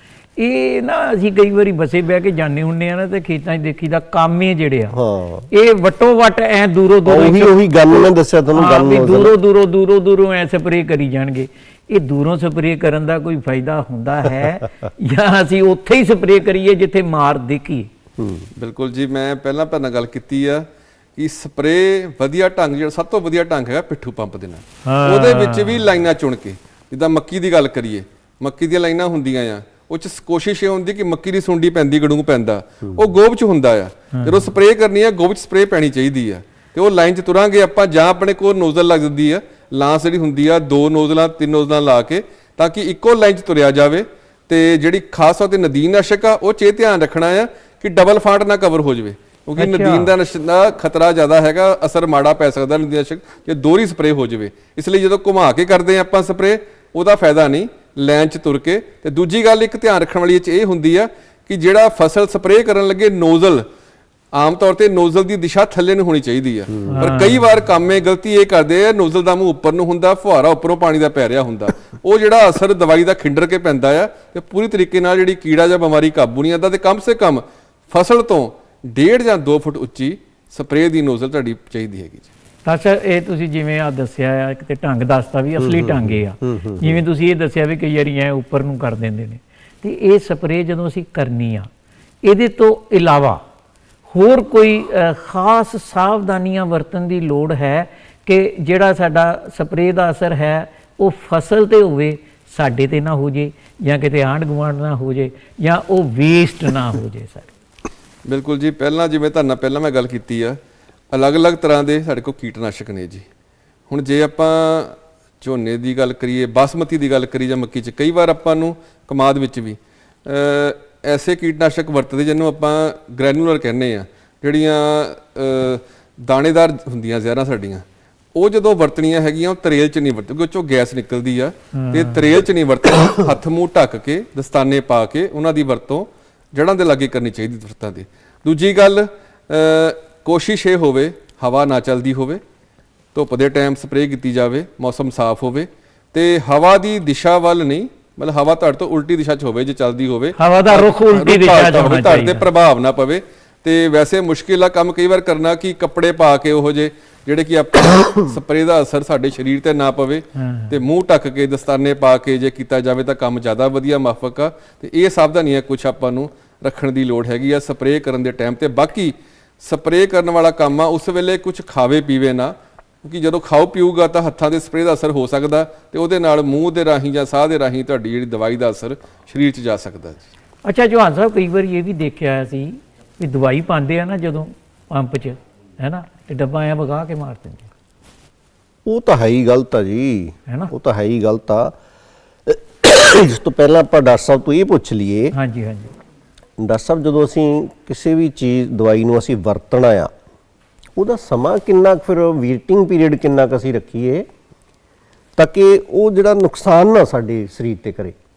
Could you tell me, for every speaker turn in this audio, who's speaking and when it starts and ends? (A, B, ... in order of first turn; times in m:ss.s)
0:00.4-0:05.0 A
0:04.9-0:05.4 B
0:05.5-0:17.9 A
0:07.0-0:09.3 B
0:18.2-0:18.5 B
0:18.6-1:03.6 C
0:24.8-0:25.8 A
0:34.1-0:34.5 A
0:49.6-0:50.1 A
1:04.3-1:22.3 C
1:06.8-1:07.4 A
1:22.6-1:31.7 A
1:25.6-1:27.0 B
1:32.2-1:33.4 A
1:34.1-1:47.5 A
1:48.3-1:50.6 C
1:51.1-1:53.2 C
1:53.9-2:07.8 C
2:08.3-2:22.4 C
2:11.7-2:12.3 A
2:23.1-3:00.3 C
2:30.4-2:32.4 A
2:40.3-2:40.7 A
3:00.6-3:07.7 A
3:08.8-3:11.7 B
3:12.4-3:15.3 B
3:15.3-3:15.9 A
3:16.6-3:20.1 B
3:21.0-3:24.3 B
3:25.4-3:28.2 B